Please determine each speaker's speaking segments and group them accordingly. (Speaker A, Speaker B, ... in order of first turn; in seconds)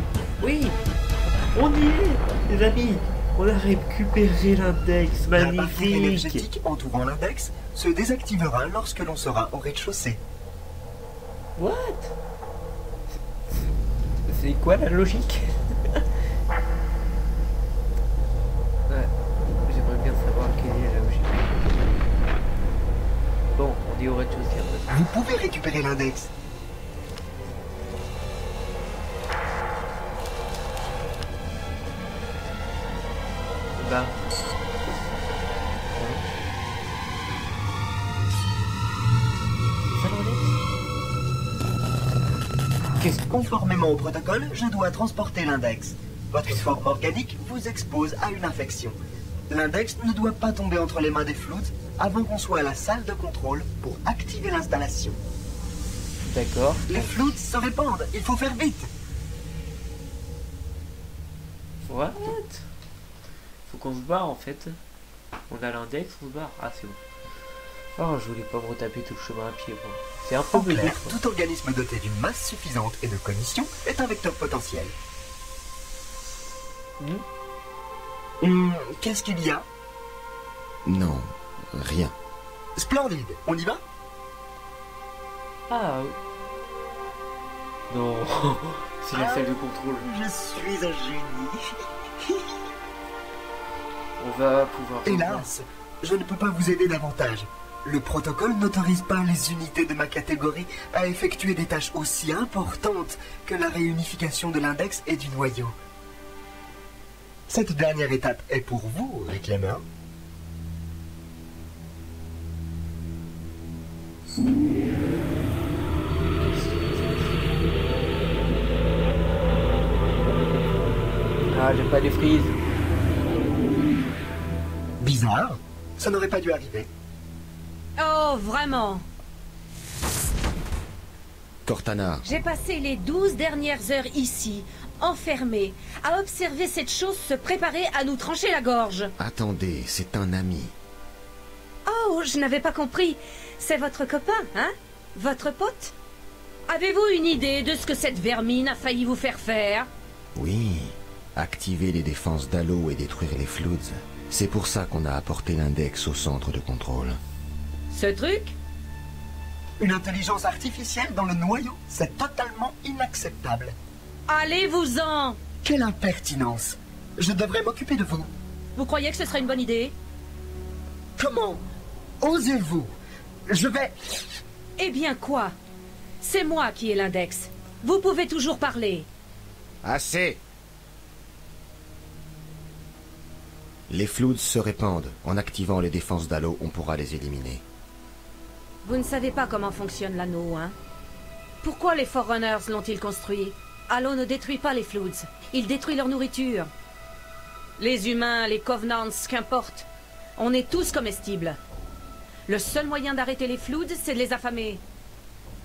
Speaker A: 0.4-0.8, 1.6-6.5, 11.6-12.2, 13.1-13.7, 14.2-16.1, 19.6-22.0, 23.5-25.1, 33.8-34.2, 36.0-36.2, 40.0-40.6, 43.0-43.3, 46.5-46.8, 56.2-57.3, 61.8-62.7, 63.7-64.8, 65.5-67.0, 68.0-71.2, 77.0-77.2, 85.7-86.2, 87.9-90.1, 94.2-95.5, 116.2-117.7, 121.5-122.6
Speaker B: 5.3-10.2, 24.9-26.3, 43.3-49.0, 49.5-55.2, 56.9-58.9, 70.5-75.0, 78.4-79.7, 82.8-83.8, 89.1-91.6, 92.2-92.6, 95.0-105.7, 107.5-109.8, 125.0-126.9, 159.8-163.8, 165.6-168.3, 171.2-171.6, 172.2-172.9, 173.5-174.3
Speaker C: 80.8-82.2, 131.7-132.2, 139.2-140.7, 150.4-157.2, 179.8-180.4, 183.9-187.6
Speaker D: 128.0-129.0, 132.2-139.1, 141.9-145.9, 146.7-149.9, 157.9-158.6, 164.3-165.4, 168.8-169.9, 174.8-175.5, 176.2-179.1, 188.8-190.8, 191.6-196.7, 197.8-199.9, 200.4-201.6, 202.5-204.8